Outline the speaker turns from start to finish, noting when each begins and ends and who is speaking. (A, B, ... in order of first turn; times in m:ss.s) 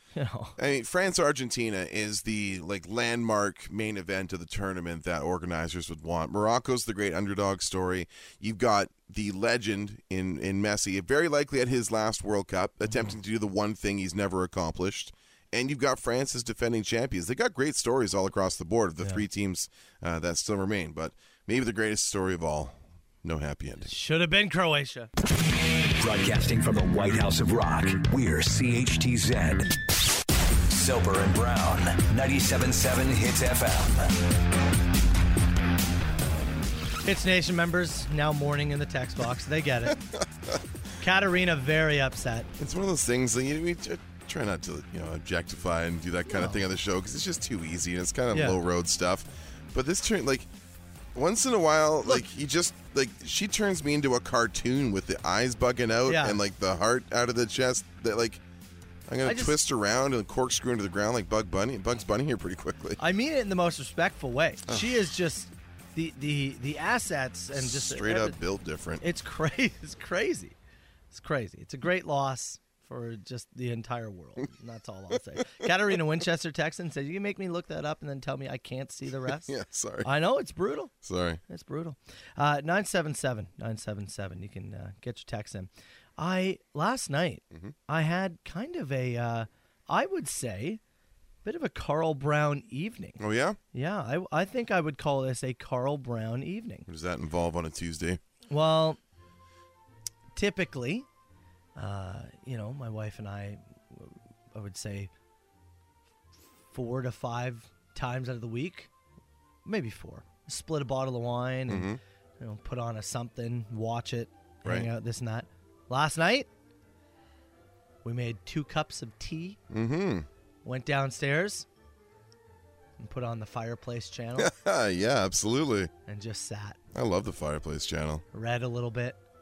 0:00.1-0:00.6 A
0:00.6-0:23.9 B
0:12.8-0:13.1 A
0:23.8-0:25.1 A
0:26.0-0:29.7 C
0:30.7-0:34.1 C
0:37.0-0:40.0 A
0:39.9-0:40.6 B
0:41.0-0:42.5 A
0:42.6-0:50.5 B
0:46.3-0:46.6 A
0:48.3-0:48.6 A
0:51.1-0:58.4 B
0:56.0-0:56.4 A
0:59.1-1:03.0 B
0:59.2-0:59.6 A
1:03.0-1:08.4 A
1:04.7-1:05.0 B
1:07.5-1:09.0 B
1:09.0-1:10.5 A
1:11.1-1:19.5 A
1:19.3-1:20.1 B
1:20.0-1:20.9 A
1:21.0-1:21.4 B
1:21.5-1:30.8 A
1:27.5-1:27.8 B
1:31.4-1:33.2 A
1:33.2-1:33.6 B
1:33.7-1:36.8 A
1:36.9-1:38.2 B
1:38.5-1:39.0 A
1:40.3-1:41.1 A
1:41.8-1:45.1 A
1:46.7-1:48.9 A
1:49.6-1:56.5 A
1:51.7-1:52.0 B
1:54.6-1:54.9 B
1:58.0-1:59.6 A
1:59.7-2:00.3 B
2:00.6-2:01.6 A
2:03.0-2:04.5 A
2:04.4-2:05.9 B
2:06.1-2:06.8 A
2:06.9-2:08.2 B
2:08.3-2:09.2 A